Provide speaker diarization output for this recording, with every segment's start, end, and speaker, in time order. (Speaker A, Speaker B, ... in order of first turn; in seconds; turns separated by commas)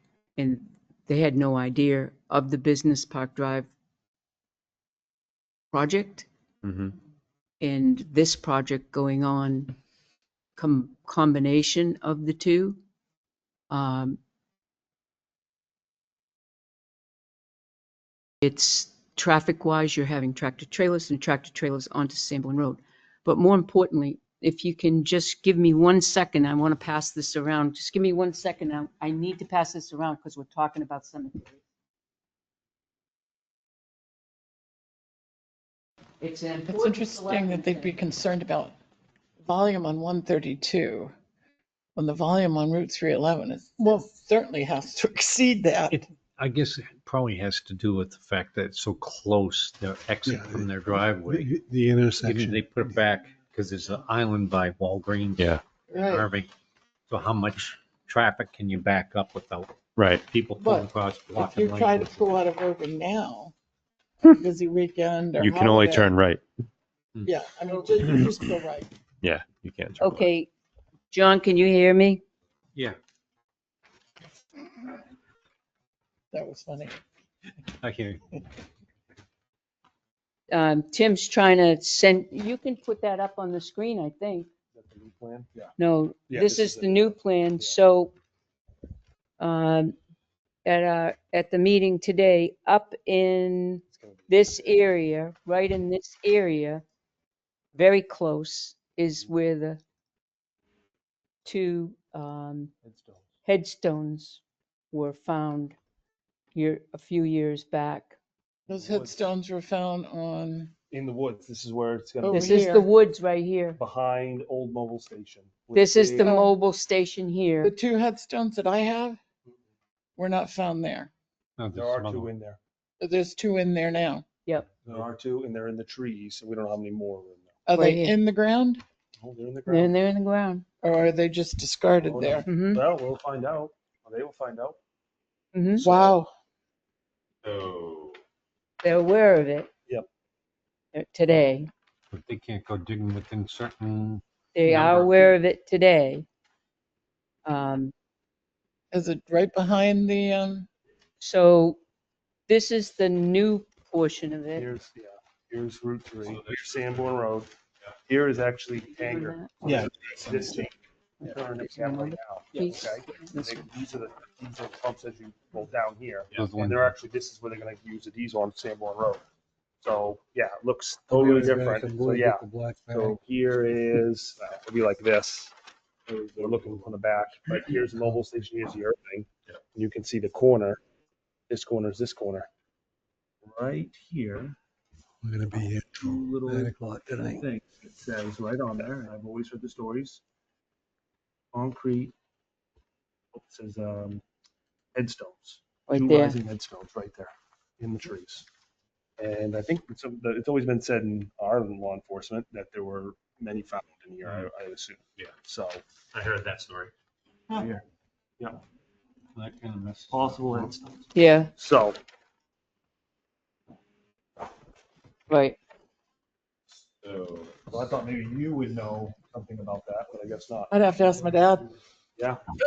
Speaker A: 0.4-3.7, Speaker A: 5.7-6.3, Speaker B: 6.6-6.9, Speaker A: 7.6-9.7, Speaker A: 10.6-12.8, Speaker A: 13.7-14.2, Speaker A: 18.4-31.6, Speaker A: 36.2-38.0, Speaker C: 36.7-38.7, Speaker C: 39.4-41.1, Speaker C: 42.0-46.0, Speaker D: 45.9-51.5, Speaker E: 50.2-50.7, Speaker E: 51.2-53.0, Speaker D: 52.2-56.5, Speaker C: 55.9-56.3, Speaker D: 57.1-62.2, Speaker B: 60.0-60.2, Speaker C: 60.6-63.5, Speaker C: 64.3-66.2, Speaker B: 65.4-66.4, Speaker C: 67.2-68.9, Speaker B: 69.2-70.3, Speaker A: 70.0-70.5, Speaker A: 71.1-72.2, Speaker C: 76.3-77.0, Speaker D: 77.8-78.3, Speaker A: 80.5-84.5, Speaker F: 84.7-85.7, Speaker A: 85.8-88.1, Speaker F: 86.3-87.8, Speaker A: 89.4-89.9, Speaker A: 90.6-96.8, Speaker F: 93.9-94.5, Speaker A: 97.7-99.8, Speaker A: 101.4-102.7, Speaker F: 102.8-103.3, Speaker A: 103.4-105.8, Speaker A: 106.5-108.2, Speaker F: 108.7-109.2, Speaker C: 108.7-110.7, Speaker F: 110.9-112.7, Speaker A: 112.2-113.8, Speaker C: 112.2-112.8, Speaker F: 113.8-116.3, Speaker A: 115.7-117.7, Speaker C: 116.2-116.5, Speaker C: 117.6-119.2, Speaker C: 120.2-121.1, Speaker D: 121.6-122.3, Speaker F: 121.7-122.6, Speaker C: 123.0-124.2, Speaker F: 124.8-127.6, Speaker C: 127.7-128.8, Speaker A: 127.7-128.2, Speaker F: 129.2-129.9, Speaker A: 129.7-130.6, Speaker C: 130.8-132.5, Speaker F: 132.0-134.8, Speaker A: 132.4-132.8, Speaker A: 135.5-135.8, Speaker F: 135.8-136.2, Speaker C: 135.8-136.3, Speaker B: 137.4-138.2, Speaker A: 138.8-139.7, Speaker A: 140.9-141.7, Speaker D: 142.1-145.2, Speaker A: 144.5-146.3, Speaker A: 147.4-147.9, Speaker C: 148.9-150.7, Speaker A: 151.2-151.8, Speaker A: 152.5-154.7, Speaker F: 154.6-157.5, Speaker B: 156.3-157.1, Speaker F: 158.1-169.2, Speaker A: 158.9-159.5, Speaker C: 159.6-160.7, Speaker A: 161.2-163.7, Speaker D: 166.3-166.9, Speaker F: 169.8-175.5, Speaker E: 171.1-173.2, Speaker F: 176.1-180.8, Speaker B: 176.4-177.0, Speaker F: 181.5-182.5, Speaker F: 183.4-184.6, Speaker E: 185.2-187.4, Speaker F: 186.0-190.2, Speaker F: 191.5-192.1, Speaker F: 193.3-194.2, Speaker F: 194.9-198.5, Speaker A: 195.9-196.4, Speaker F: 199.2-205.8, Speaker B: 206.1-206.9, Speaker F: 207.5-207.8, Speaker D: 209.3-210.7, Speaker F: 210.1-212.0, Speaker A: 211.1-211.5, Speaker A: 215.3-215.6, Speaker B: 217.0-217.7, Speaker F: 217.7-221.4, Speaker C: 220.7-221.7